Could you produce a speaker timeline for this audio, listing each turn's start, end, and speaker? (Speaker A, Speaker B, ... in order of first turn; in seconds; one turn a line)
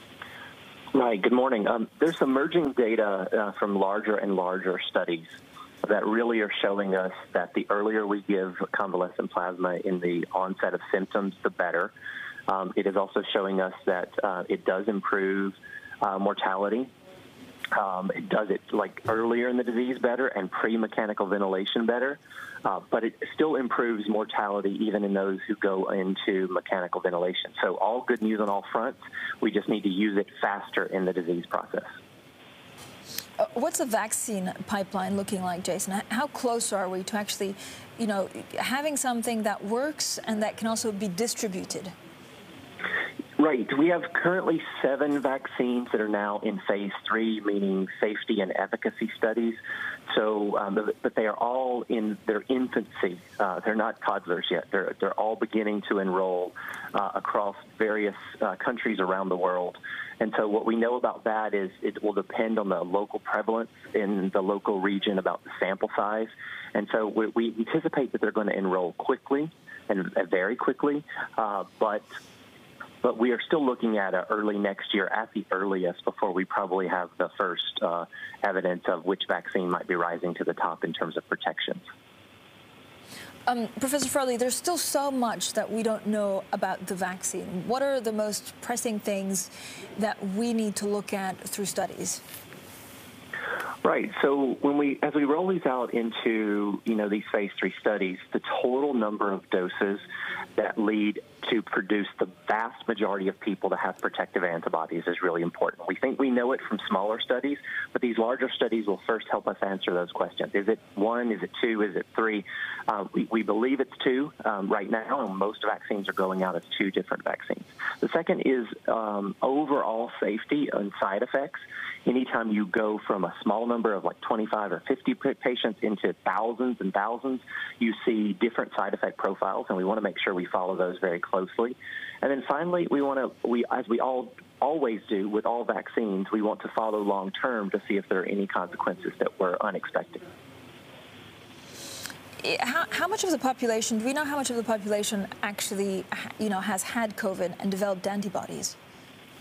Speaker A: 0.9-11.9
Speaker A: 12.5-16.9
Speaker A: 17.7-31.9
Speaker B: 33.4-41.9
Speaker A: 43.4-72.1
Speaker A: 73.0-81.8
Speaker B: 83.5-92.2
Speaker A: 93.8-100.0
Speaker A: 100.6-140.2
Speaker B: 142.4-148.8